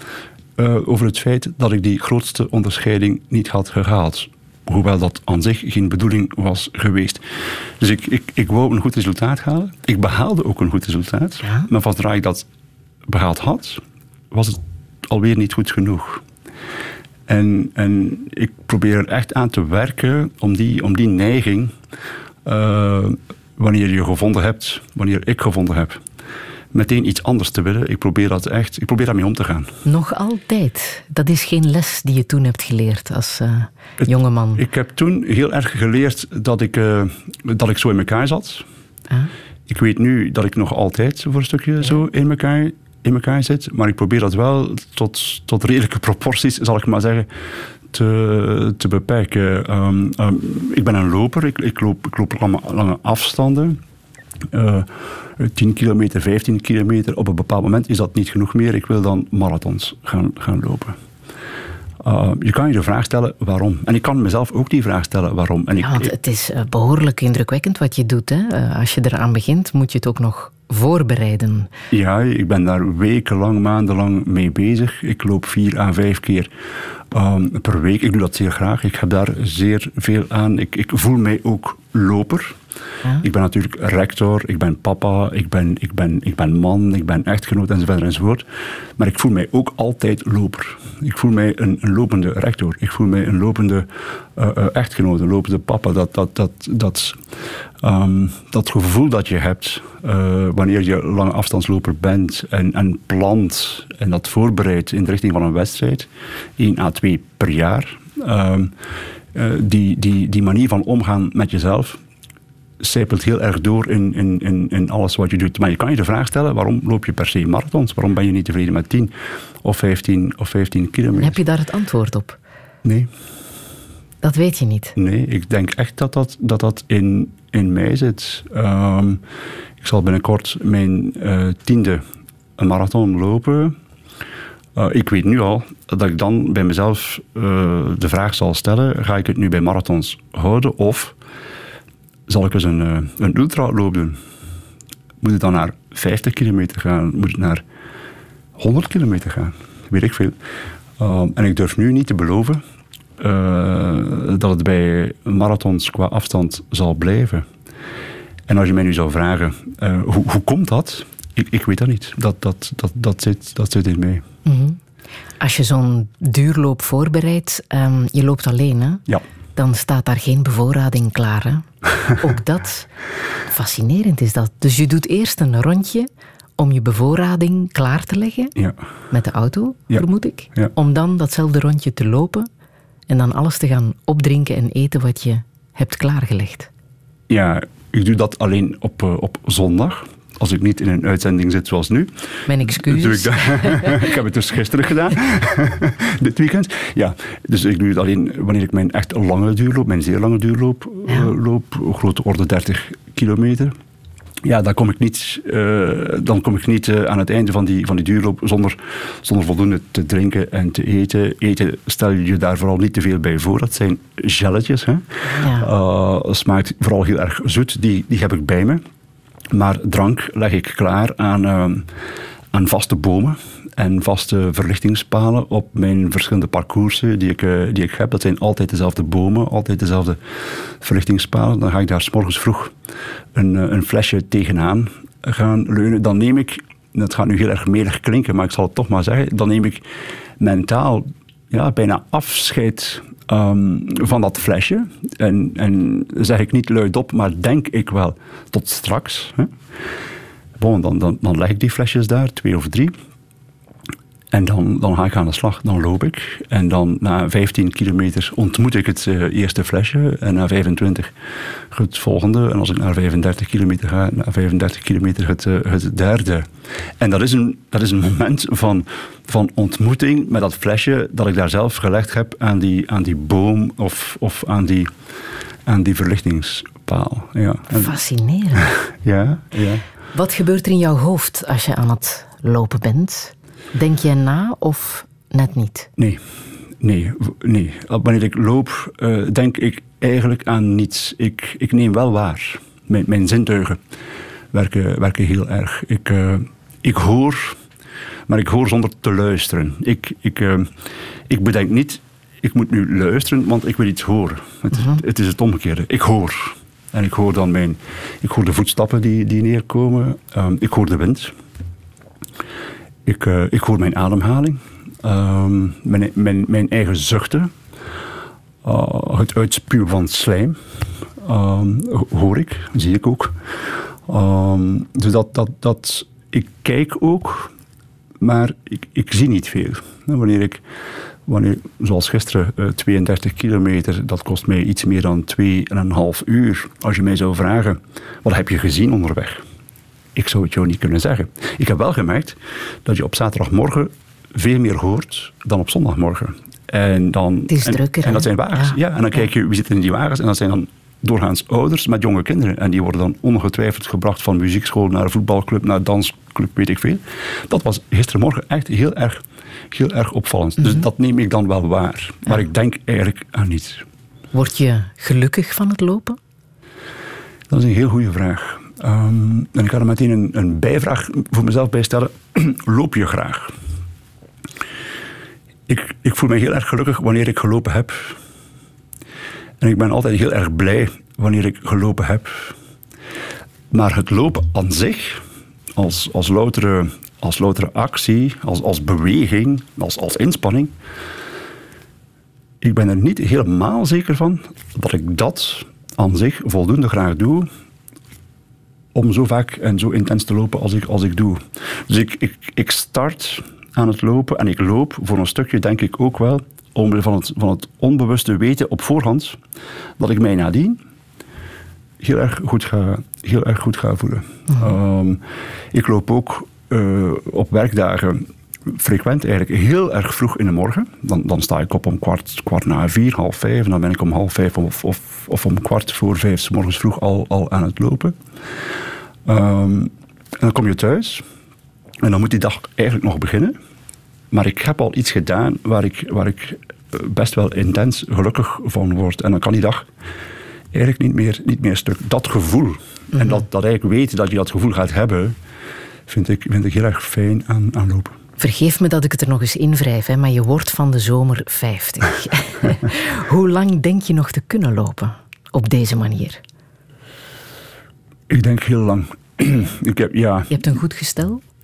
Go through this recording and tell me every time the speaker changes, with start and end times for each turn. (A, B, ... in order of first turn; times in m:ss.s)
0:00.6-0:07.2 A
0:07.8-0:12.5 A
0:13.1-0:16.2 A
0:17.3-0:21.7 A
0:22.4-0:26.0 A
0:26.7-0:29.8 A
0:29.9-0:34.6 B
0:34.0-0:38.6 A
0:39.7-0:47.3 A
0:47.9-0:53.8 A
0:54.5-1:01.0 A
1:02.0-1:06.1 A
1:05.8-1:11.7 B
1:11.9-1:16.5 A
1:17.1-1:22.6 A
1:23.2-1:28.4 A
1:29.0-1:37.2 A
1:37.8-1:48.7 A
1:49.3-1:52.0 A
1:52.8-2:01.4 A
2:01.2-2:02.4 B
2:02.8-2:03.1 A
2:04.2-2:05.0 B
2:05.0-2:09.2 A
2:09.8-2:12.0 A
2:12.6-2:13.8 A
2:14.8-2:21.2 A
2:22.3-2:24.2 A
2:25.2-2:27.6 A
2:28.6-2:30.4 A
2:31.0-2:32.6 A
2:33.2-2:37.5 A
2:38.5-2:44.2 A
2:44.5-2:44.8 B
2:45.4-2:49.0 B
2:49.6-2:52.9 B
2:53.5-2:58.6 B
2:59.1-3:02.5 B
3:03.1-3:06.7 B
3:07.3-3:23.8 A
3:12.5-3:14.1 B
3:24.4-3:38.8 A
3:35.3-3:35.7 B
3:39.5-3:41.9 A
3:42.5-3:50.2 A
3:50.8-3:52.8 A
3:53.4-3:59.8 A
4:00.4-4:09.5 A
4:10.6-4:13.0 A
4:14.3-4:21.1 A
4:21.7-4:26.5 A
4:27.0-4:34.9 A
4:35.7-4:38.0 A
4:37.7-4:38.7 B
4:38.6-4:39.8 A
4:40.1-4:45.9 B
4:46.0-4:46.2 A
4:46.8-4:53.8 A
4:54.5-4:57.6 A
4:58.3-5:00.7 A
5:01.3-5:11.3 A
5:13.0-5:17.5 A
5:18.6-5:20.6 A
5:21.2-5:23.4 A
5:24.1-5:27.5 A
5:28.2-5:30.6 A
5:31.3-5:39.4 A
5:40.2-6:03.9 A
5:47.5-5:48.8 B
6:04.3-6:06.2 B
6:07.5-6:13.5 A
6:15.7-6:18.2 A
6:19.6-6:22.6 A
6:23.7-6:25.2 A
6:25.8-6:30.7 A
6:32.6-6:37.5 A
6:38.9-6:49.4 A
6:50.0-6:50.8 A
6:52.0-7:08.2 A
7:09.3-7:11.2 A
7:12.0-7:13.6 A
7:14.3-7:19.9 A
7:20.7-7:25.4 A
7:26.1-7:28.2 A
7:28.4-7:36.4 B
7:38.3-7:40.6 A
7:40.5-7:41.4 B